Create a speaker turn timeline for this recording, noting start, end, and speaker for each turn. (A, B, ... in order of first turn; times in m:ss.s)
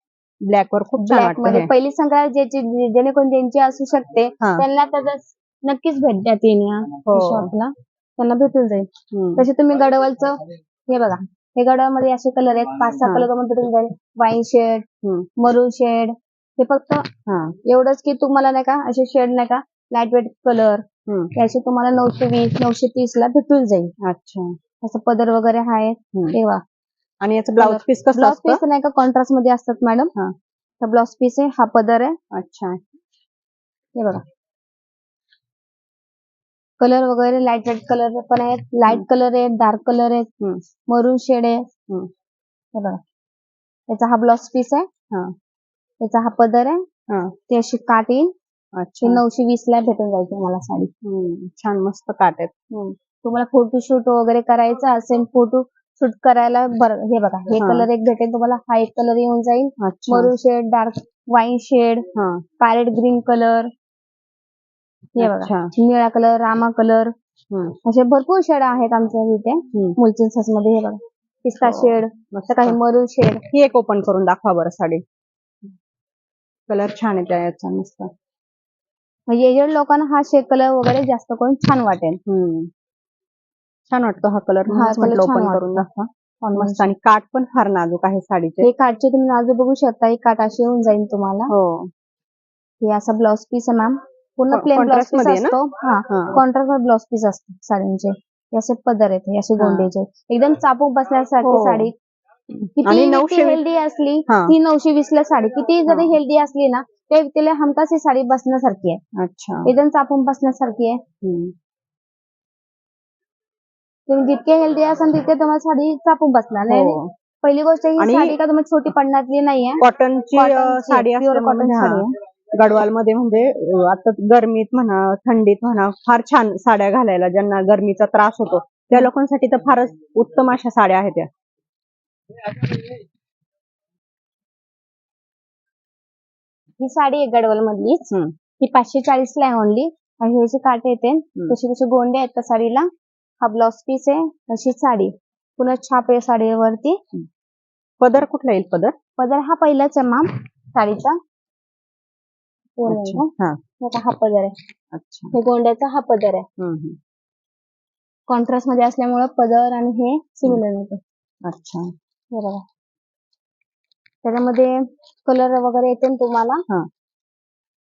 0:00.4-0:01.7 A
0:01.0-0:14.9 B
0:07.1-0:07.5 A
0:09.1-0:09.5 A
0:13.0-0:13.3 A
0:15.0-0:15.3 A
0:15.4-0:17.1 B
0:17.3-0:17.6 A
0:17.6-0:23.9 B
0:21.1-0:21.3 A
0:24.0-0:24.5 A
0:24.8-0:26.6 B
0:27.2-0:28.6 A
0:27.6-0:30.1 B
0:30.8-0:32.2 B
0:32.3-0:32.8 A
0:33.9-0:34.2 B
0:36.8-0:40.3 B
0:40.9-0:41.7 B
0:42.8-0:43.0 B
0:43.9-0:44.9 B
0:46.0-0:46.8 B
0:47.5-0:48.3 B
0:48.8-0:49.2 A
0:49.0-0:50.9 B
0:51.0-0:52.8 A
0:53.2-1:02.1 B
0:57.6-0:57.9 A
0:59.8-1:00.3 A
1:02.2-1:02.4 A
1:02.6-1:03.7 B
1:05.2-1:07.1 B
1:05.2-1:05.7 A
1:07.5-1:07.8 A
1:07.8-1:13.4 B
1:11.6-1:12.8 A
1:13.5-1:15.0 A
1:16.7-1:18.1 A
1:19.3-1:22.2 B
1:22.3-1:22.7 A
1:23.9-1:28.7 A
1:24.7-1:25.9 B
1:26.4-1:26.9 B
1:28.6-1:31.5 B
1:31.5-1:31.9 A
1:32.8-1:41.9 B
1:34.5-1:35.6 A
1:36.1-1:36.4 A
1:39.6-1:39.9 A
1:41.4-1:41.9 A
1:42.8-1:49.0 B
1:42.8-1:43.6 A
1:44.3-1:44.6 A
1:45.9-1:46.2 A
1:49.2-1:49.7 A
1:49.6-1:51.0 B
1:51.2-1:51.5 A
1:54.1-2:02.1 B
1:56.7-1:57.1 A
1:58.0-1:58.4 A
1:59.8-2:11.3 A
2:16.8-2:22.9 B
2:23.4-2:27.0 B
2:28.0-2:28.9 A
2:29.2-2:31.2 B
2:32.8-2:33.3 B
2:32.9-2:33.6 A
2:33.8-2:34.6 B
2:34.9-2:35.4 A
2:35.3-2:36.5 B
2:36.6-2:37.0 A
2:38.3-2:41.0 B
2:41.4-2:41.9 A
2:42.3-2:42.6 B
2:44.2-2:46.6 B